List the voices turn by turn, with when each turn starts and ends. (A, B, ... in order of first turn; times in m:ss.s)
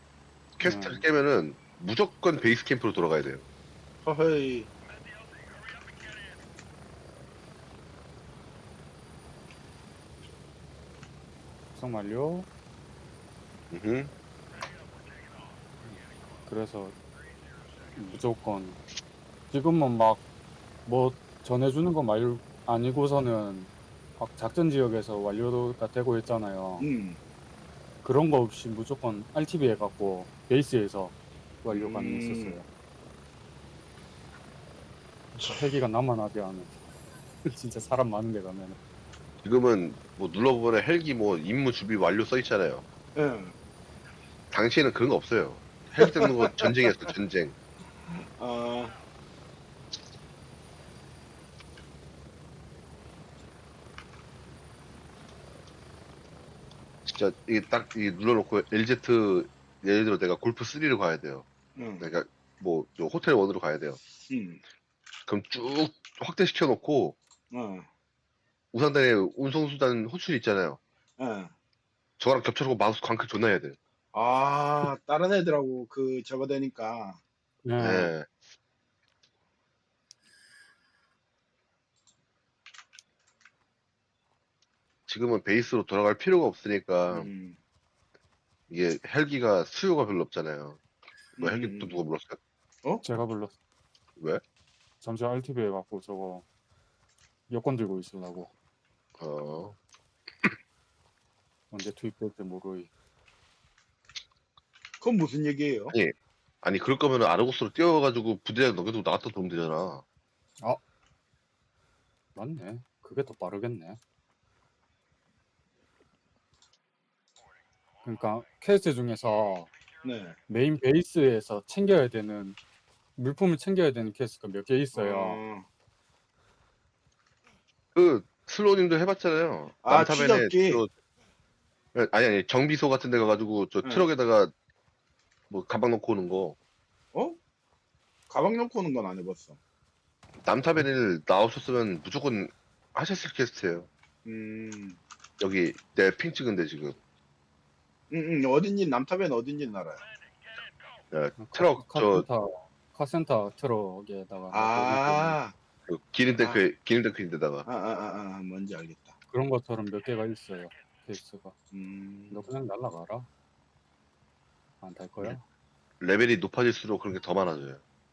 0:00.6-0:03.4 A
0:00.6-0:01.0 B
0:04.0-0:04.7 C
0:11.7-0:12.5 B
0:13.7-0:14.1 A
0:15.8-0:17.0 B
0:17.9-0:18.8 B
0:19.5-0:20.2 B
0:20.8-0:26.9 B
0:26.8-0:27.2 C
0:28.0-0:32.7 B
0:31.7-0:32.6 C
0:35.3-0:36.7 B
0:37.4-0:38.8 B
0:39.4-0:42.8 A
0:43.1-0:43.6 C
0:44.5-0:47.5 A
0:46.0-0:47.1 C
0:48.1-0:49.0 C
0:57.0-1:01.4 A
1:01.7-1:02.1 C
1:02.0-1:04.0 A
1:04.3-1:04.6 C
1:05.3-1:07.2 A
1:07.5-1:07.9 C
1:08.7-1:10.8 A
1:11.2-1:11.5 C
1:12.2-1:13.8 A
1:14.1-1:17.2 C
1:17.6-1:18.1 B
1:17.8-1:18.3 A
1:25.1-1:27.3 A
1:27.1-1:27.6 C
1:28.7-1:30.8 A
1:31.4-1:32.0 C
1:31.4-1:32.4 A
1:33.0-1:33.6 B
1:35.0-1:36.4 B
1:37.5-1:38.5 B
1:39.2-1:39.8 A
1:41.7-1:42.9 B
1:45.0-1:45.9 C
1:46.6-1:50.0 A
1:52.3-1:54.0 B
1:58.0-1:59.7 B
2:00.0-2:00.4 C
2:00.5-2:02.6 B
2:03.2-2:05.4 B
2:04.9-2:05.6 C
2:07.9-2:10.9 A
2:09.8-2:10.8 C
2:11.9-2:14.5 A
2:13.8-2:14.1 C
2:15.5-2:16.6 A
2:18.3-2:19.6 C
2:20.4-2:23.9 A
2:24.2-2:25.0 C
2:25.4-2:27.0 A
2:28.1-2:30.0 C
2:31.1-2:32.3 A
2:31.4-2:35.4 B
2:34.5-2:35.5 C
2:35.9-2:37.6 A
2:36.4-2:36.6 C
2:37.6-2:39.1 C
2:39.3-2:41.5 B
2:41.7-2:42.5 C
2:42.3-2:43.3 B
2:44.8-2:45.4 B
2:46.0-2:47.8 A